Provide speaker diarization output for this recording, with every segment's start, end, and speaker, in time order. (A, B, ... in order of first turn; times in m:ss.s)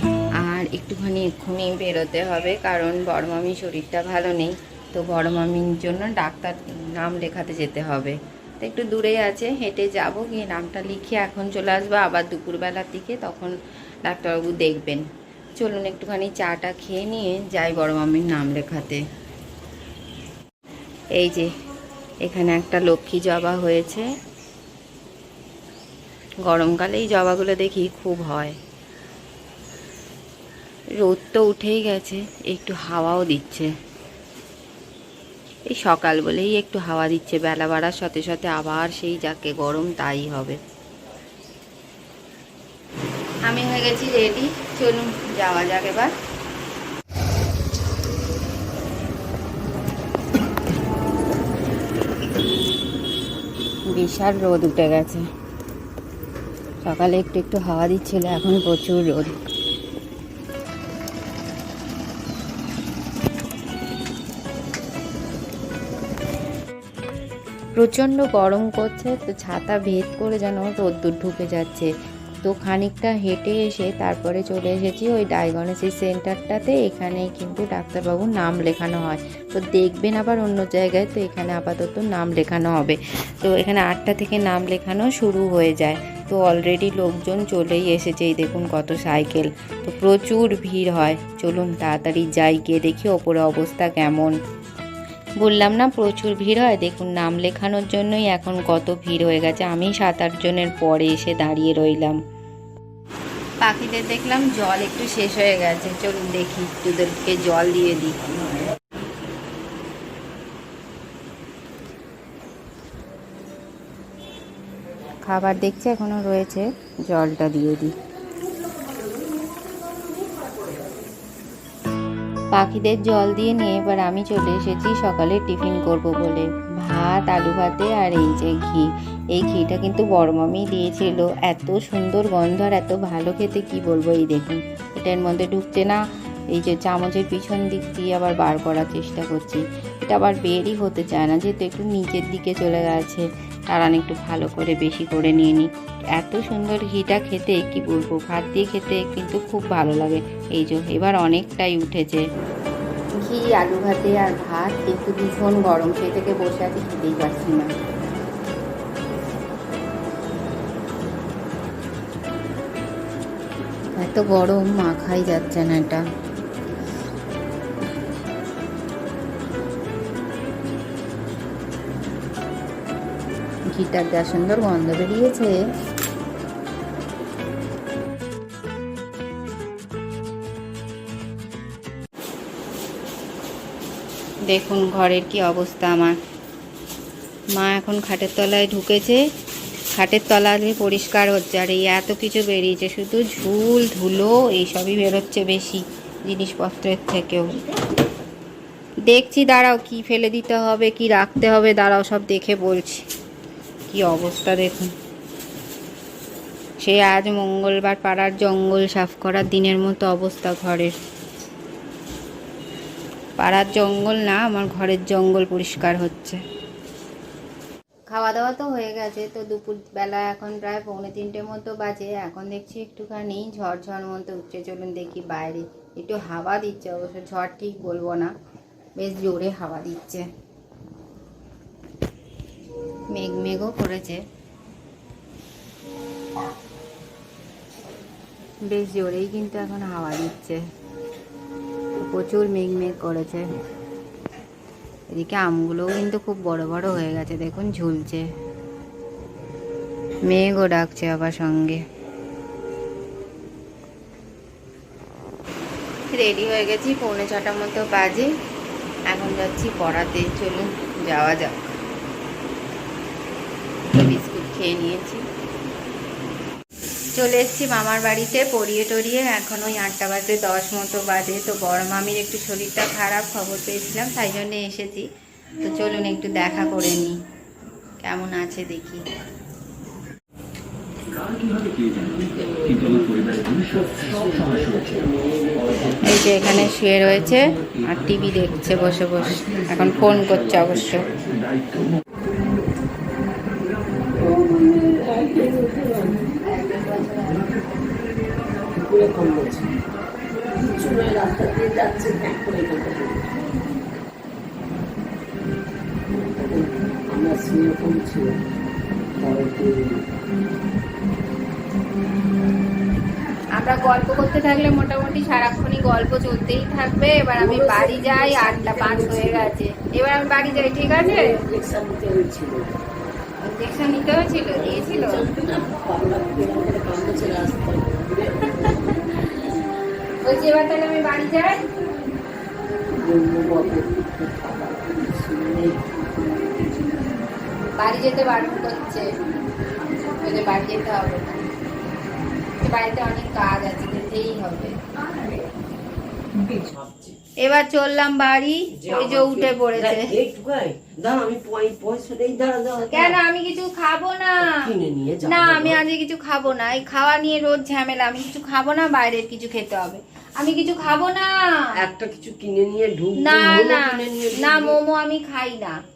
0:00.4-0:15.0 A
0:15.6-0:19.0 A
0:21.2-0:21.5 A
0:22.2-0:24.1 A
0:26.4-0:28.6 A
0:31.0-0:33.7 A
0:35.7-0:40.6 A
0:43.4-0:46.1 A
0:53.9-0:55.3 A
0:56.8-0:59.3 A
1:07.8-1:11.9 A
1:12.4-1:34.3 A
1:35.4-1:42.2 A
1:43.6-1:48.2 A
1:55.2-1:57.9 A
2:02.5-2:16.0 A
2:16.5-2:32.2 A
2:33.2-2:37.7 A
2:44.0-2:46.0 A
2:53.7-2:55.6 A
3:04.5-3:06.2 A
3:07.5-3:09.2 A
3:10.0-3:17.6 A
3:19.1-3:23.0 A
3:23.9-3:24.9 A
3:26.8-3:30.9 A
3:33.4-3:36.4 A
3:38.1-3:48.3 A
3:49.0-3:50.3 A
3:53.1-3:54.2 A
3:58.6-4:00.6 A
4:02.0-4:03.5 A
4:05.1-4:08.3 A
4:10.2-4:11.8 A
4:16.1-4:18.3 A
4:19.1-4:21.6 A
4:23.8-4:25.2 A
4:27.2-4:35.1 A
4:35.6-4:37.2 A
4:38.0-4:39.0 A
4:41.9-4:46.0 B
4:46.0-4:51.1 A
4:54.1-4:56.3 B
4:56.4-4:57.5 A
4:58.8-4:59.7 B
5:00.5-5:03.3 B
5:06.1-5:08.4 B
5:09.2-5:10.0 B
5:13.6-5:21.4 A
5:17.4-5:19.5 B
5:20.8-5:22.8 B
5:23.4-5:25.3 A
5:24.5-5:29.0 B
5:30.2-5:31.6 A
5:33.0-5:35.9 B
5:37.8-5:39.1 A
5:40.0-5:41.5 A
5:42.6-5:44.8 A
5:46.4-5:47.2 B
5:47.4-5:50.1 A
5:48.7-5:53.2 B
5:52.9-5:54.7 A
5:54.4-5:55.8 B
5:55.2-6:01.6 A
6:01.8-6:04.8 B
6:03.2-6:05.8 A